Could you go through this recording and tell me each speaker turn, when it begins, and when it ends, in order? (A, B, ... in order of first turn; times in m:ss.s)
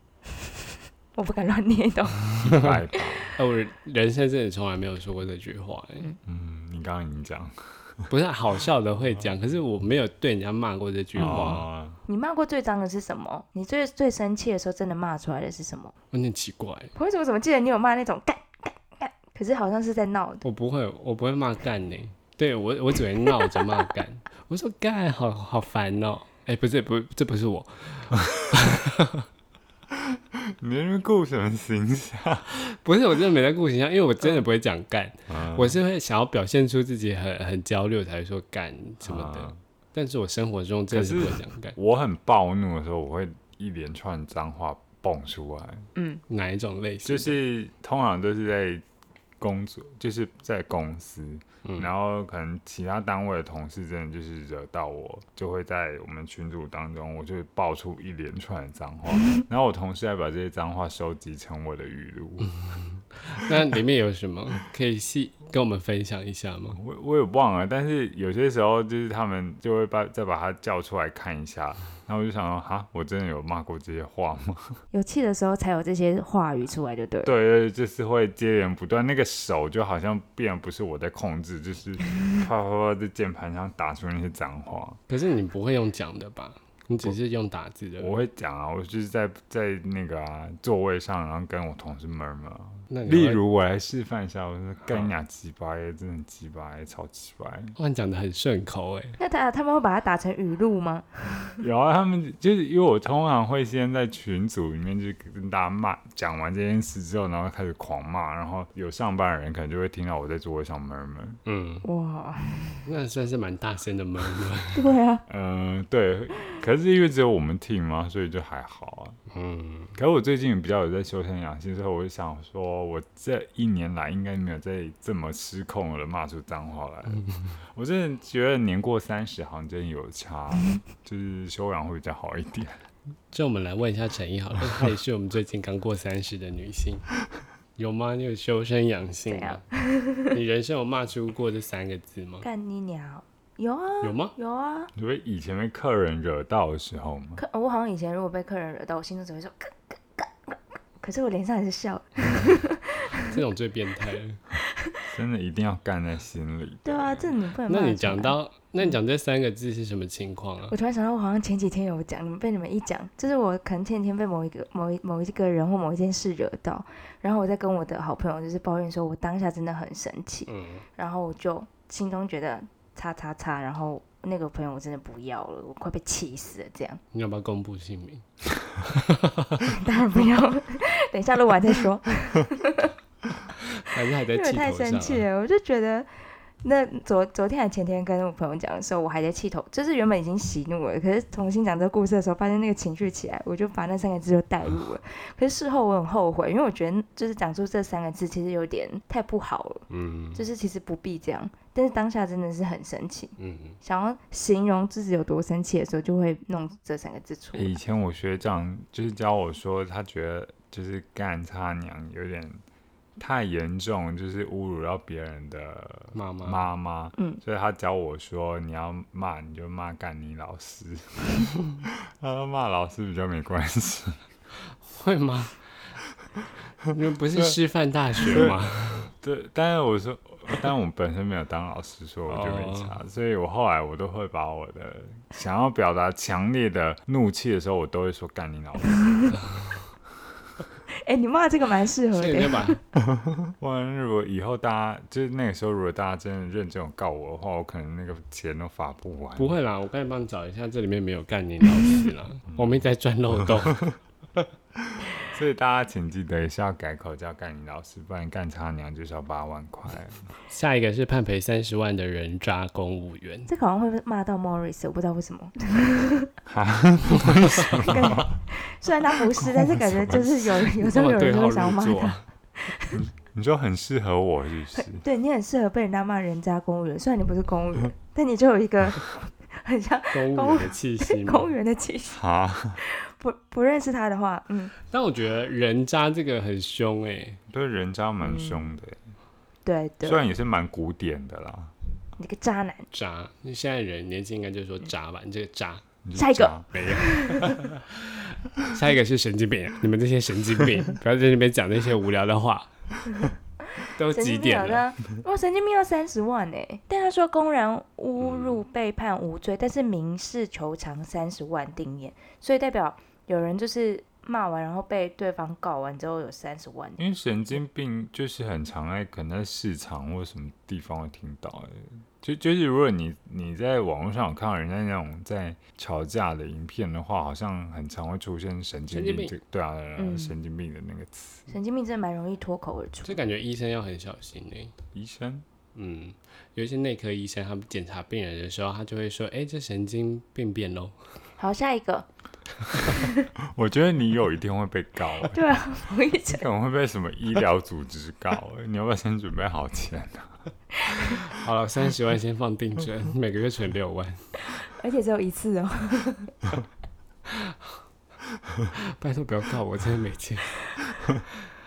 0:01.2-0:02.2 A
0:02.4-0:03.4 B
0:03.4-0:06.1 C
0:06.2-0:08.1 B
0:08.1-0:11.6 C
0:11.2-0:12.0 B
0:12.1-0:15.9 A
0:16.1-0:16.9 C
0:17.0-0:20.4 A
0:20.4-0:29.3 C
0:29.9-0:32.5 B
0:32.5-0:41.8 C
0:35.3-0:35.8 B
0:39.0-0:39.6 B
0:40.9-0:45.9 B
0:46.0-0:46.2 A
0:46.3-0:47.4 C
0:47.0-0:48.8 B
0:49.4-1:02.5 B
0:51.6-0:51.9 C
1:03.1-1:06.8 C
1:06.8-1:14.8 B
1:14.9-1:17.3 A
1:17.2-1:25.0 B
1:25.1-1:28.2 C
1:28.0-1:37.8 B
1:32.9-1:33.4 C
1:37.8-1:39.2 C
1:39.2-1:41.6 A
1:41.6-1:51.4 B
1:51.5-1:51.9 C
1:51.8-1:52.8 A
1:52.9-1:54.9 C
1:54.7-1:55.2 A
1:55.3-1:59.2 B
1:59.3-2:00.0 C
2:00.0-2:12.8 B
2:13.3-2:17.1 C
2:17.8-2:19.6 C
2:19.3-2:20.4 A
2:20.2-2:22.4 C
2:22.4-2:24.9 A
2:24.0-2:24.4 C
2:25.0-2:27.4 B
2:27.4-2:33.4 A
2:33.2-2:34.4 C
2:35.1-2:37.3 B
2:36.8-2:38.4 A
2:37.7-2:40.7 C
2:40.7-2:57.0 A
2:50.5-2:50.8 C
2:57.1-2:59.7 C
2:59.7-3:02.9 A
3:03.6-3:05.3 C
3:04.3-3:06.1 A
3:06.6-3:27.7 A
3:19.9-3:20.4 C
3:23.4-3:23.8 C
3:27.5-3:32.6 B
3:33.2-3:44.2 B
3:36.2-3:36.7 C
3:44.6-3:45.9 C
3:46.8-3:49.1 C
3:48.3-3:59.4 B
3:52.3-3:53.0 C
4:00.9-4:02.8 A
4:02.1-4:02.8 C
4:03.0-4:09.6 B
4:09.4-4:14.4 C
4:12.5-4:12.8 B
4:14.8-4:20.2 B
4:20.5-4:23.5 C
4:23.5-4:26.3 A
4:26.5-4:28.3 B
4:27.8-4:33.0 A
4:29.4-4:30.4 B
4:30.8-4:32.2 C
4:32.9-4:35.0 B
4:34.8-4:42.2 A
4:40.1-4:41.5 C
4:42.1-4:42.8 B
4:42.8-4:44.7 A
4:44.9-4:47.4 C
4:47.5-4:49.0 B
4:48.2-4:48.6 A
4:49.6-4:50.2 A
4:50.0-4:51.7 B
4:52.2-4:52.9 A
4:52.9-4:55.8 C
4:56.0-4:56.7 B
4:56.2-4:57.6 A
4:56.7-5:02.7 C
5:03.9-5:17.0 A
5:04.0-5:04.8 C
5:17.0-5:31.5 B
5:28.9-5:29.3 C
5:30.0-5:30.4 A
5:31.5-5:33.2 A
5:33.0-5:34.7 C
5:34.9-5:35.5 B
5:35.8-5:41.1 C
5:41.4-5:42.1 A
5:43.0-5:43.3 A
5:43.4-5:45.6 B
5:45.2-5:46.4 A
5:46.3-5:50.4 B
5:50.8-5:51.2 A
5:51.1-5:54.3 C
5:54.6-5:56.3 A
5:57.3-5:57.8 C
5:58.7-6:00.8 C